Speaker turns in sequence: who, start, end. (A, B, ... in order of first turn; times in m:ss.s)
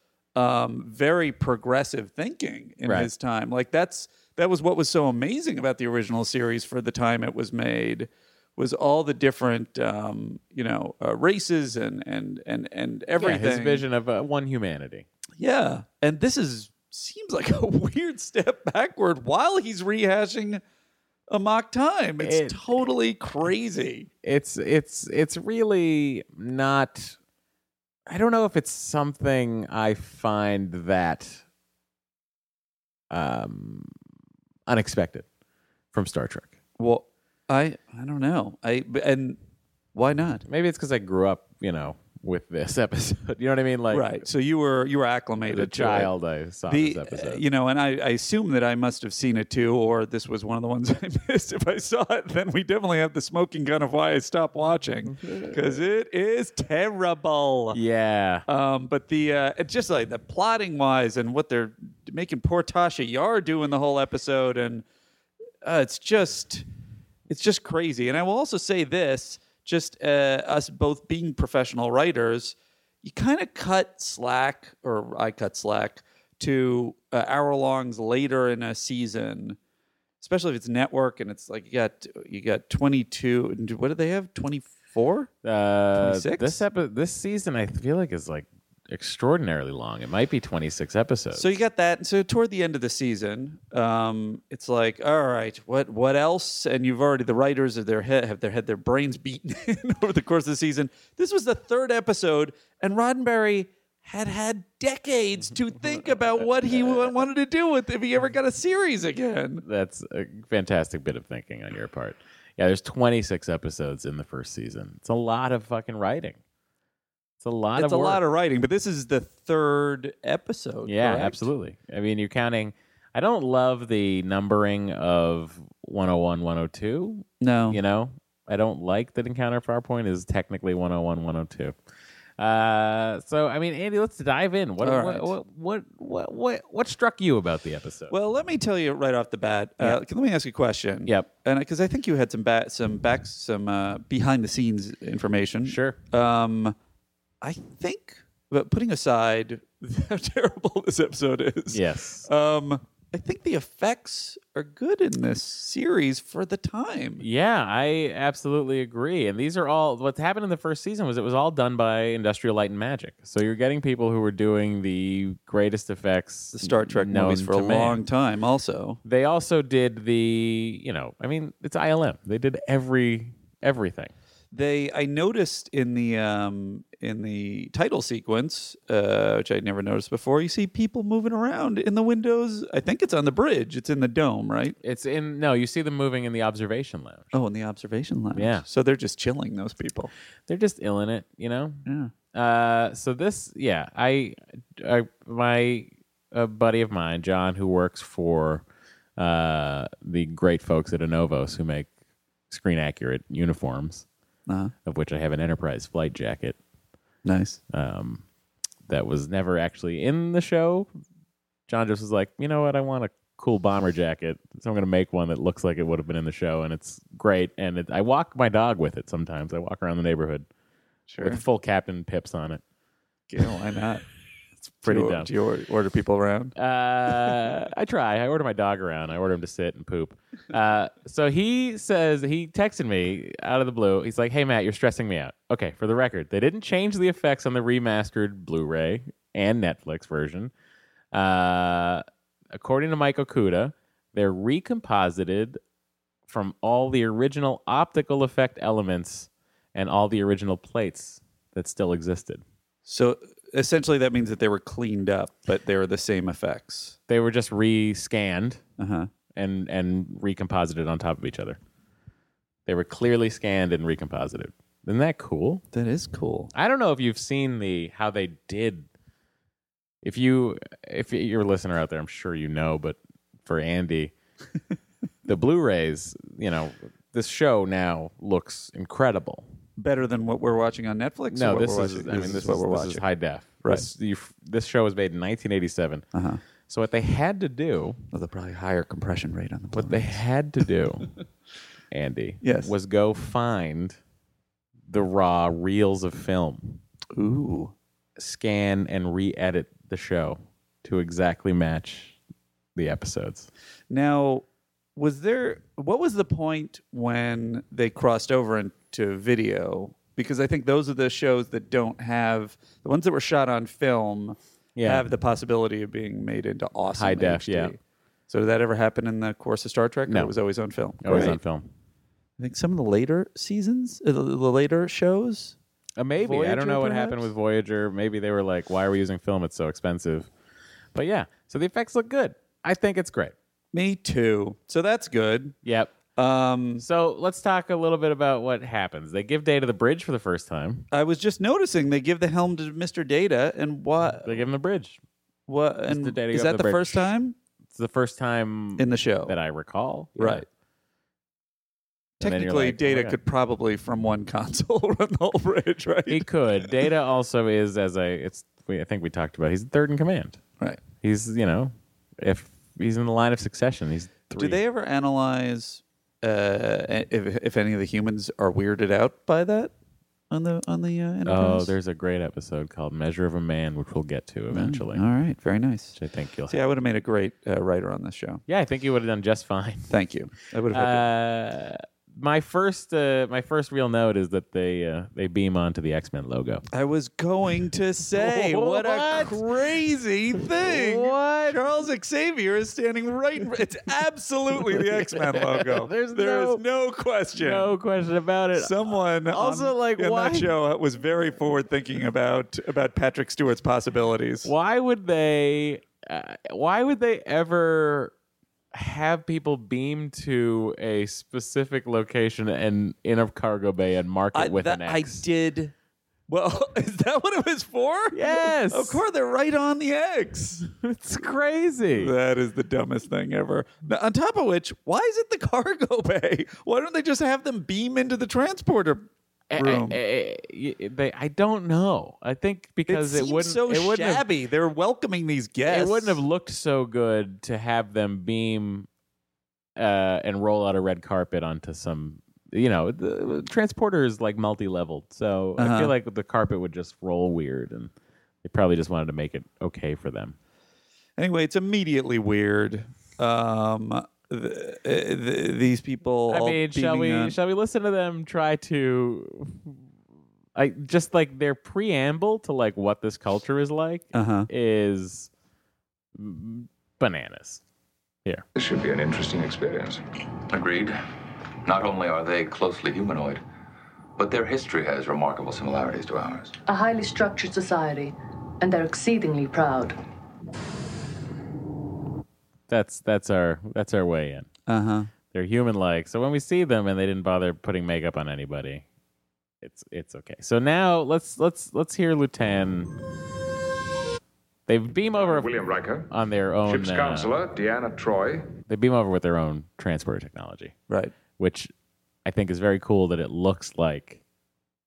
0:00.3-0:13.8 A
0:02.8-0:03.1 B
0:13.2-0:15.1 B
0:15.4-0:20.6 A
0:21.3-0:24.1 A
0:22.2-0:22.6 B
0:24.2-0:27.2 B
0:28.1-0:31.4 B
0:33.1-0:33.9 B
0:34.7-0:35.2 B
0:35.9-0:36.5 B
0:36.8-0:39.4 A
0:39.9-0:40.4 A
0:40.5-0:44.2 B
0:43.9-0:46.1 A
0:45.5-0:47.4 B
0:46.7-0:57.8 A
0:55.2-0:55.8 B
0:57.7-0:58.4 B
0:58.5-1:04.8 A
1:05.6-1:06.6 A
1:07.3-1:19.6 A
1:20.2-1:25.3 A
1:25.4-1:31.5 B
1:25.9-1:26.6 A
1:31.3-1:49.6 A
1:45.9-1:47.1 B
1:49.6-1:56.4 B
1:57.4-1:58.2 B
1:57.8-2:01.5 A
2:00.8-2:11.7 B
2:07.4-2:07.8 A
2:12.4-2:18.1 B
2:14.8-2:15.3 A
2:18.1-2:26.8 A
2:25.6-2:26.0 B
2:27.4-2:37.2 A
2:31.7-2:32.3 B
2:37.2-2:48.0 B
2:46.5-2:49.0 A
2:49.0-2:54.1 B
2:54.5-3:04.8 A
3:04.8-3:07.3 B
3:07.3-3:10.1 A
3:08.3-3:08.6 B
3:10.5-3:18.6 B
3:11.8-3:12.1 A
3:19.2-3:21.9 B
3:22.5-3:24.0 B
3:24.5-3:24.7 A
3:24.8-3:26.6 B
3:27.2-3:27.6 A
3:27.7-3:28.2 B
3:28.9-3:30.9 B
3:31.7-3:40.5 B
3:41.1-3:41.4 A
3:41.2-3:42.6 B
3:43.3-3:44.0 A
3:44.7-3:46.5 A
3:44.8-3:45.3 B
3:46.6-4:00.5 B
4:01.1-4:05.6 B
4:06.3-4:12.4 B
4:12.8-4:17.0 A
4:17.1-4:18.6 B
4:18.8-4:19.1 A
4:19.3-4:21.6 B
4:22.6-4:25.6 B
4:25.7-4:26.5 A
4:26.5-4:28.9 B
4:30.0-4:34.1 B
4:35.3-4:39.5 B
4:39.8-4:43.0 A
4:41.3-4:46.0 B
4:46.1-4:46.4 A
4:46.7-4:48.0 B
4:48.1-4:50.2 A
4:49.7-4:51.1 B
4:51.9-4:54.0 B
4:52.4-4:52.7 A
4:54.9-4:56.8 B
4:57.1-4:57.7 A
4:58.2-5:02.2 B
5:02.8-5:03.5 B
5:03.9-5:04.4 A
5:05.0-5:17.8 A
5:14.8-5:15.0 B
5:16.9-5:17.7 B
5:18.3-5:21.4 A
5:20.1-5:20.3 B
5:21.0-5:21.7 B
5:22.4-5:25.6 A
5:26.0-5:30.3 B
5:26.2-5:27.3 A
5:30.9-5:33.3 B
5:33.7-5:35.6 A
5:35.6-5:35.9 B
5:36.2-5:36.8 A
5:36.8-5:40.9 B
5:40.9-5:44.4 A
5:44.2-5:45.0 B
5:45.5-5:47.4 A
5:45.9-5:47.1 B
5:47.7-5:50.4 B
5:48.8-5:49.3 A
5:50.2-5:50.4 A
5:52.2-5:56.3 A
5:52.2-5:53.2 B
5:56.1-6:04.6 B
6:04.3-6:09.7 A
6:10.3-6:11.7 A
6:11.2-6:15.0 B
6:14.5-6:16.0 A
6:15.9-6:16.6 B
6:16.5-6:18.4 A
6:18.5-6:19.9 B
6:19.9-6:21.0 A
6:20.7-6:26.6 B
6:26.7-6:37.7 A
6:28.1-6:29.8 B
6:30.4-6:31.6 B
6:34.6-6:36.6 B
6:37.4-6:40.5 B
6:38.5-6:44.5 A
6:44.4-6:48.1 B
6:48.7-6:55.2 B
6:54.3-6:55.7 A
6:56.3-7:00.6 A
6:58.1-6:59.0 B
7:00.8-7:02.1 B
7:01.9-7:10.0 A
7:09.5-7:14.2 B
7:12.9-7:16.2 A
7:15.7-7:18.9 B
7:19.8-7:27.9 B
7:25.6-7:25.9 A
7:28.4-7:30.4 B
7:31.2-7:37.4 A
7:36.3-7:39.8 B
7:40.6-7:45.3 B
7:44.1-7:44.5 A
7:46.1-7:47.6 B
7:48.5-7:50.0 C
7:50.5-7:51.0 D
7:51.6-7:53.4 D
7:54.2-7:56.6 D
7:56.6-8:00.0 E
8:02.7-8:04.5 B
8:04.7-8:05.1 A
8:05.3-8:08.8 B
8:09.6-8:12.9 B
8:14.7-8:17.3 B
8:15.1-8:16.1 C
8:16.6-8:18.5 C
8:18.7-8:20.7 B
8:20.9-8:21.1 A
8:21.4-8:21.7 B
8:22.2-8:24.2 B